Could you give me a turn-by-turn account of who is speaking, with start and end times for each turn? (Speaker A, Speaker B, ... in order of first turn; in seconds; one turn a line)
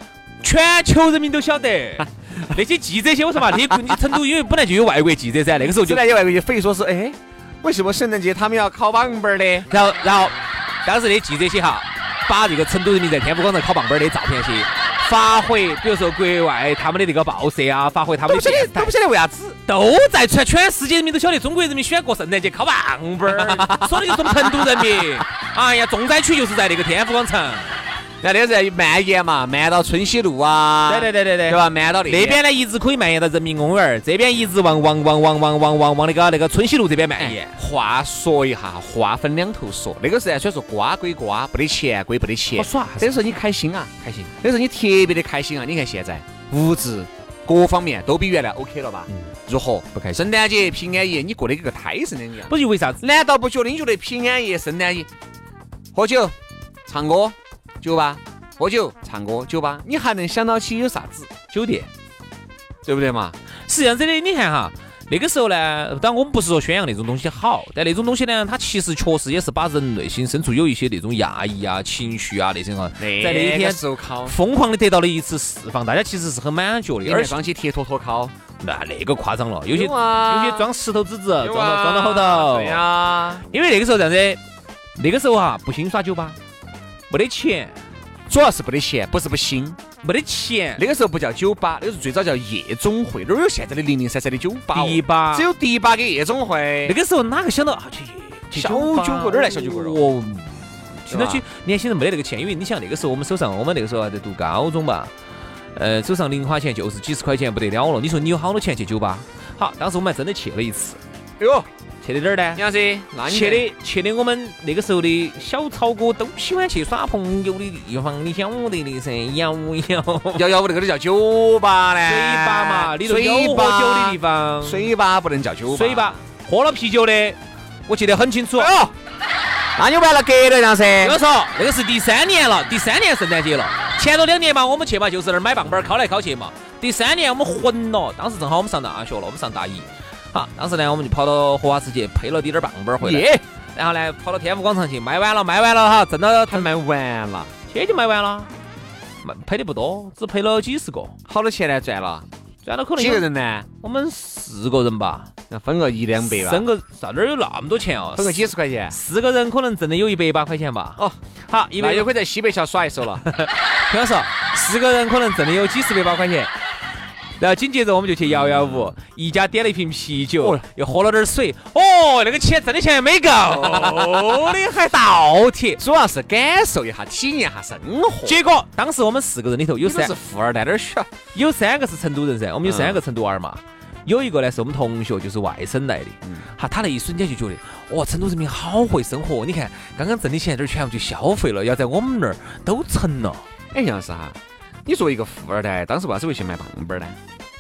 Speaker A: 0.4-6.0
Speaker B: 5.7-9.7
Speaker A: 9.7-18.9
Speaker B: 18.3-19.6
Speaker A: 19.7-27.8
Speaker B: 23.3-25.1
Speaker B: 28.2-32.4
Speaker A: 30.9-37.6
Speaker B: 37.2-55.1
Speaker A: 42.5-43.2
Speaker A: 44.0-44.3
Speaker A: 50.0-50.2
Speaker A: 52.5-53.0
Speaker B: 55.9-56.4
Speaker B: 56.9-61.3
Speaker A: 61.5-61.9
Speaker B: 62.8-63.4
Speaker A: 63.7-77.4
Speaker B: 73.0-74.4
Speaker B: 77.0-78.3
Speaker A: 78.6-82.8
Speaker B: 79.7-80.7
Speaker B: 81.4-83.4
Speaker A: 83.5-84.4
Speaker A: 85.0-86.4
Speaker A: 87.1-87.8
Speaker B: 88.3-89.8
Speaker A: 90.0-90.8
Speaker B: 90.8-97.0
Speaker A: 94.7-95.5
Speaker A: 96.8-105.1
Speaker B: 98.5-100.0
Speaker B: 101.1-101.4
Speaker A: 105.8-111.0
Speaker B: 111.4-111.7
Speaker A: 112.0-112.6
Speaker B: 112.5-113.7
Speaker A: 113.2-120.5
Speaker B: 120.4-126.2
Speaker A: 122.1-124.9
Speaker A: 125.7-128.7
Speaker B: 128.6-128.9
Speaker B: 129.8-131.2
Speaker A: 131.0-146.7
Speaker B: 143.0-143.4
Speaker B: 146.5-147.5
Speaker A: 147.7-148.5
Speaker A: 149.2-151.2
Speaker B: 151.3-152.3
Speaker A: 152.7-155.3
Speaker B: 153.0-153.7
Speaker B: 155.5-156.7
Speaker A: 156.3-162.1
Speaker B: 158.2-159.0
Speaker B: 161.8-163.3
Speaker A: 163.3-166.5
Speaker A: 167.4-175.8
Speaker B: 168.3-168.9
Speaker B: 173.5-174.7
Speaker B: 175.8-178.4
Speaker A: 178.2-180.1
Speaker B: 179.8-181.1
Speaker A: 181.3-193.4
Speaker B: 182.6-183.0
Speaker B: 193.7-197.2